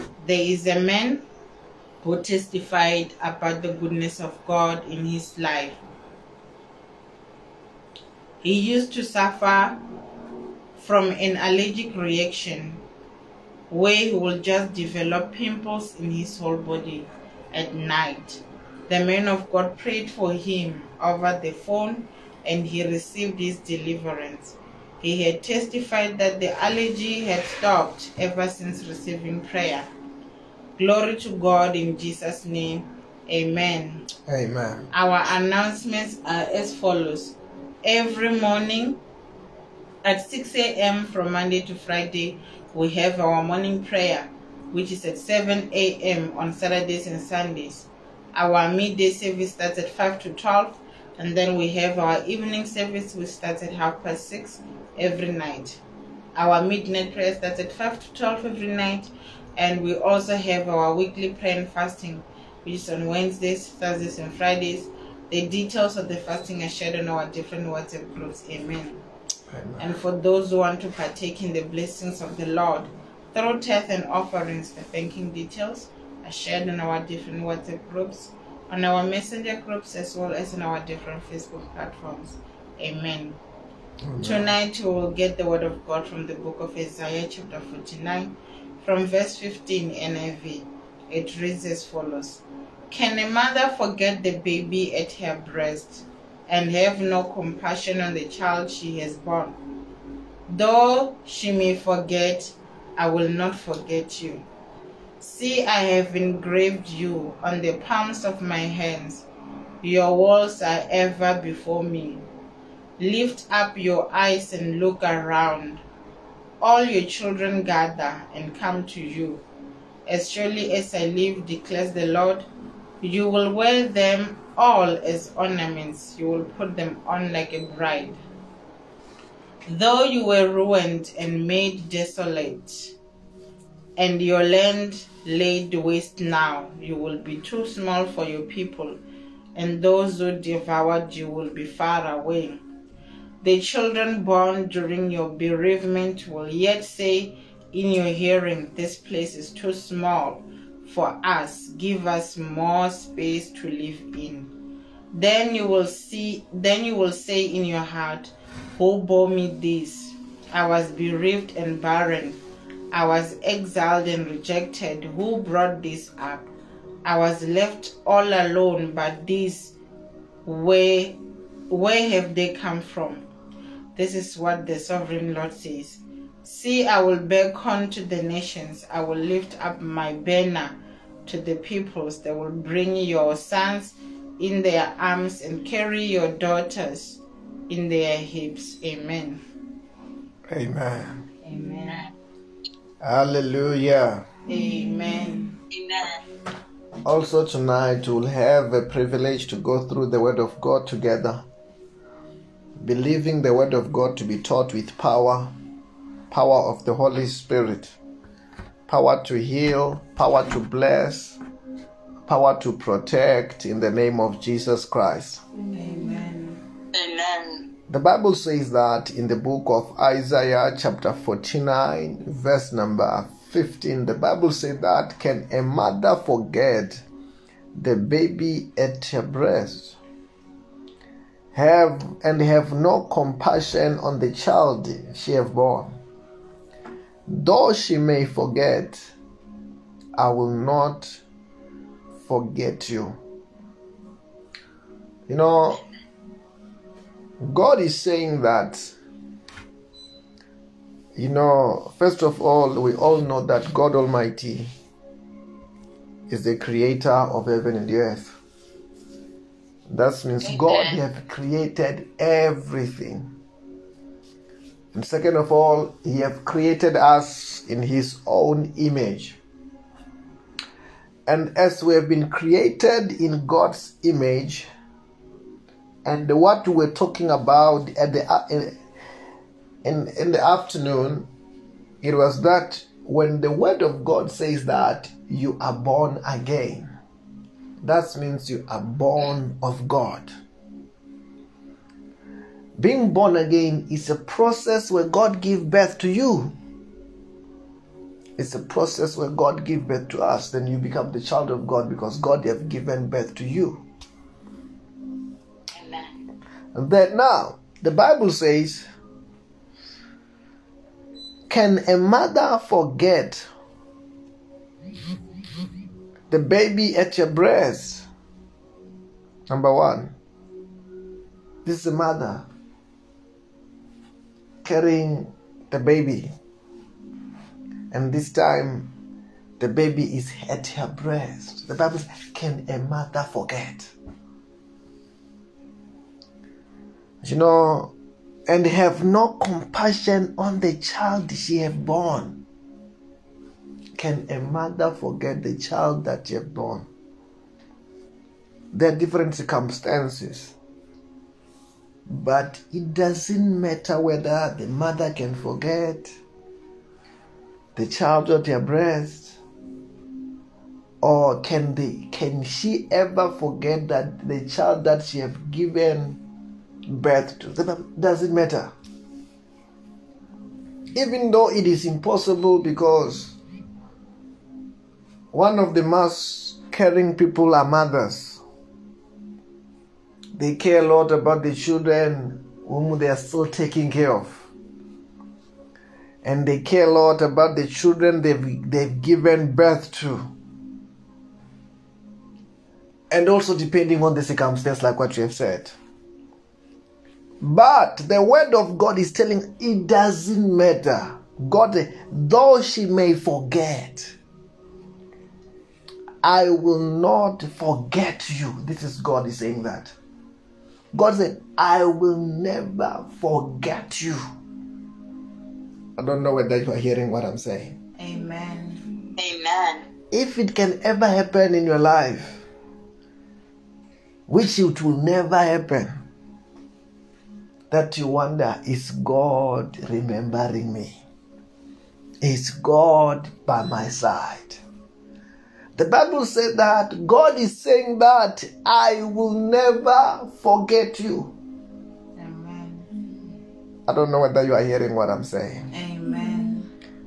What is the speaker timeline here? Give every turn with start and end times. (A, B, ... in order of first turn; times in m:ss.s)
0:00.2-0:01.2 A
0:02.0-0:05.8 A
0:08.4-0:09.8 A
0:10.8-0:12.8 A
0:13.7-0:29.9 A
0:30.8-0:34.1 A
0:34.3-0:34.9 B
0:34.9-0:39.0 A
0:40.0-0:55.8 A
0:56.4-1:09.0 A
1:09.5-1:10.0 B
1:09.8-1:23.4 A
1:24.0-1:24.5 B
1:24.2-1:39.6 A
1:40.5-1:44.4 A
1:45.2-1:49.3 A
1:49.8-1:52.3 A
1:53.0-1:55.8 A
1:56.6-1:59.4 A
2:00.1-2:02.5 A
2:03.0-2:08.2 A
2:09.7-2:12.9 A
2:14.0-2:19.0 A
2:19.6-2:22.6 A
2:23.4-2:34.5 A
2:35.1-2:42.4 A
2:42.9-2:46.5 A
2:47.0-2:49.8 A
2:50.4-2:51.2 A
2:51.7-2:53.3 A
2:54.0-3:09.4 A
3:10.5-3:11.2 B
3:11.4-3:12.1 A
3:13.0-3:14.2 B
3:14.5-3:15.6 A
3:15.7-3:16.2 C
3:17.0-3:21.4 B
3:22.8-3:25.5 B
3:26.3-3:28.0 B
3:28.9-3:31.4 B
3:32.3-3:35.4 B
3:35.8-3:36.6 A
3:36.9-3:37.7 C
3:37.9-3:47.0 B
3:47.8-3:50.0 B
3:51.5-3:56.0 B
3:57.3-3:59.1 B
4:00.2-4:01.2 B
4:02.3-4:03.2 B
4:05.3-4:05.8 B
4:07.4-4:08.9 B
4:11.2-4:14.7 B
4:16.3-4:18.4 B
4:19.9-4:23.3 B
4:20.4-4:21.0 C
4:24.9-4:29.4 B
4:31.3-4:34.7 B
4:36.0-4:38.8 B
4:39.8-4:41.3 B
4:42.0-4:46.9 B
4:47.8-4:50.3 B
4:52.8-4:56.6 B
4:58.4-5:03.8 B
5:05.8-5:06.1 C
5:06.7-5:08.9 B
5:11.5-5:13.5 B
5:16.3-5:18.1 B
5:19.5-5:20.2 B
5:21.6-5:22.5 B
5:24.6-5:26.3 B
5:27.9-5:28.9 B
5:29.6-5:33.9 B
5:37.2-5:37.9 B
5:38.5-5:42.4 B
5:44.0-5:46.9 B
5:48.7-5:50.5 B
5:52.1-5:56.1 B
5:57.8-5:59.4 B
6:01.0-6:06.2 B
6:06.9-6:08.7 B
6:10.9-6:13.4 B
6:15.3-6:18.4 B
6:20.3-6:24.4 B
6:26.2-6:30.3 B
6:33.1-6:35.8 B
6:37.4-6:44.2 B
6:46.2-6:49.9 B
6:50.9-6:54.2 B
6:56.0-6:57.8 B
6:58.0-6:59.0 A
6:59.2-6:59.8 C
7:00.1-7:02.4 B
7:04.3-7:05.9 B
7:07.7-7:11.0 B
7:12.2-7:14.6 B
7:15.8-7:21.3 B
7:22.2-7:22.9 A
7:23.9-7:25.7 B
7:25.7-7:26.7 A